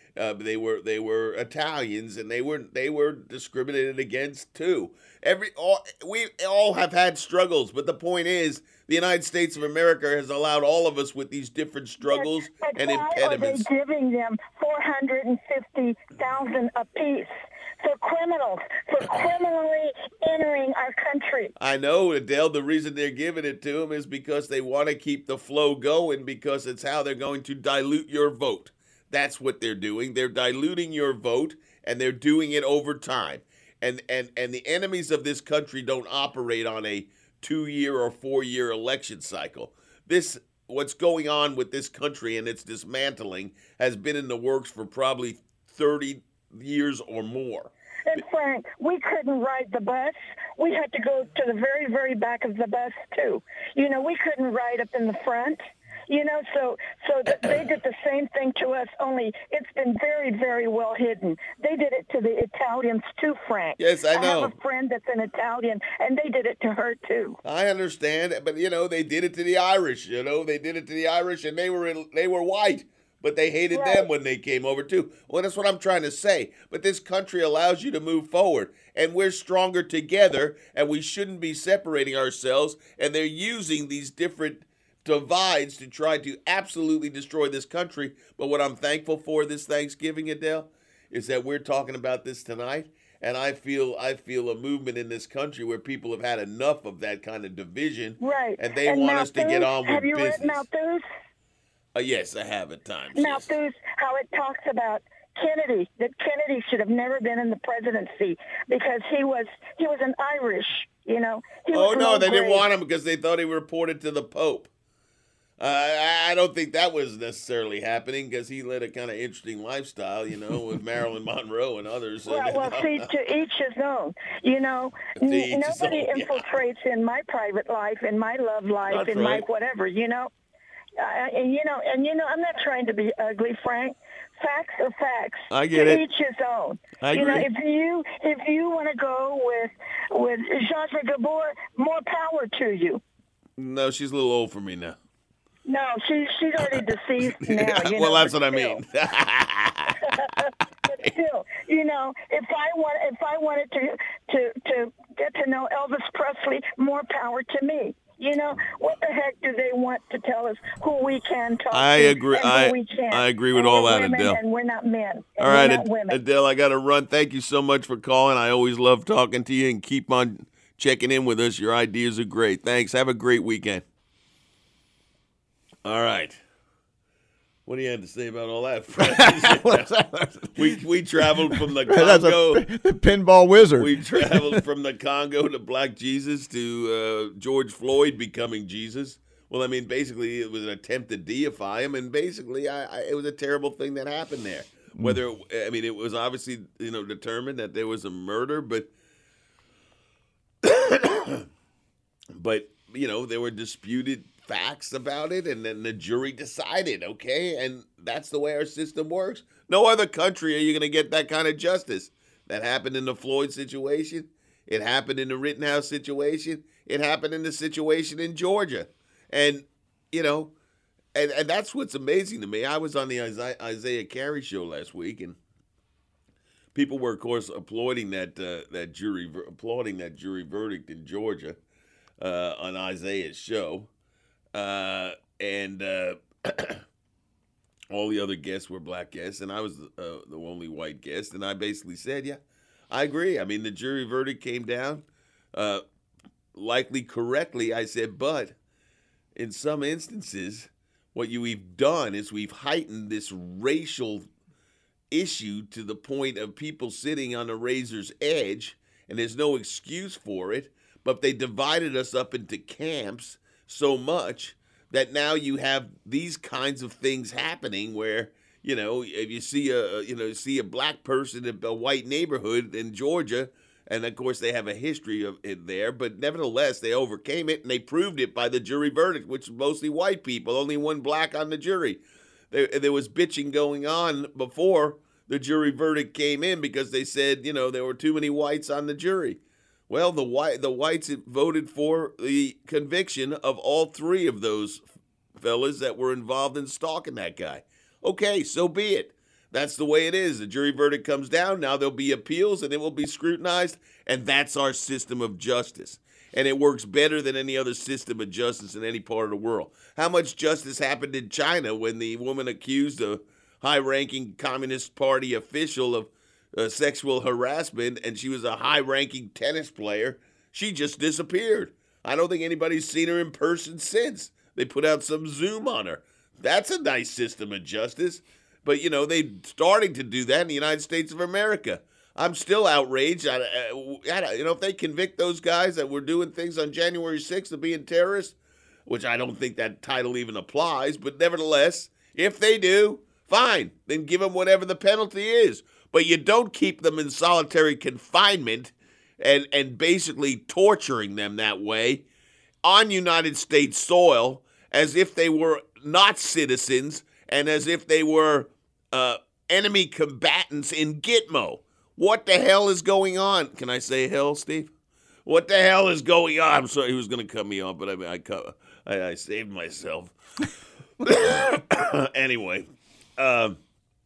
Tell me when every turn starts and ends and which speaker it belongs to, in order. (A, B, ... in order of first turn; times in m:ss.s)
0:00.2-0:13.7 A
0:12.0-0:21.5 B
0:21.6-0:48.2 A
0:48.1-1:07.4 B
0:57.4-0:57.6 A
1:03.8-1:04.5 A
1:07.4-1:40.6 A
1:13.7-1:14.1 B
1:38.2-1:41.1 B
1:42.0-1:43.5 A
1:43.2-1:52.7 B
1:51.7-1:54.7 A
1:55.6-2:03.1 A
2:02.3-2:10.3 B
2:05.2-2:06.6 A
2:08.9-2:09.4 A
2:11.0-2:23.0 B
2:15.5-2:16.0 A
2:17.0-2:17.5 A
2:23.6-2:25.0 A
2:25.7-2:28.8 B
2:26.6-2:30.2 A
2:30.1-2:46.2 B
2:41.7-2:44.4 A
2:45.4-2:53.8 A
2:55.8-2:56.4 A
2:57.7-2:59.9 A
2:59.0-3:00.7 C
3:00.5-3:02.7 A
3:01.5-3:04.6 C
3:03.8-3:18.9 A
3:20.6-3:21.5 A
3:22.3-3:40.5 A
3:41.2-3:45.4 A
3:46.8-3:51.6 A
3:52.2-3:53.9 A
3:54.5-3:56.8 A
3:57.9-4:02.4 A
4:02.9-4:05.8 A
4:06.6-4:08.6 A
4:09.4-4:14.3 A
4:15.1-4:54.8 A
4:55.4-5:38.4 A
5:38.9-5:52.0 A
5:52.6-6:04.7 A
6:05.3-6:10.2 A
6:11.0-6:13.6 A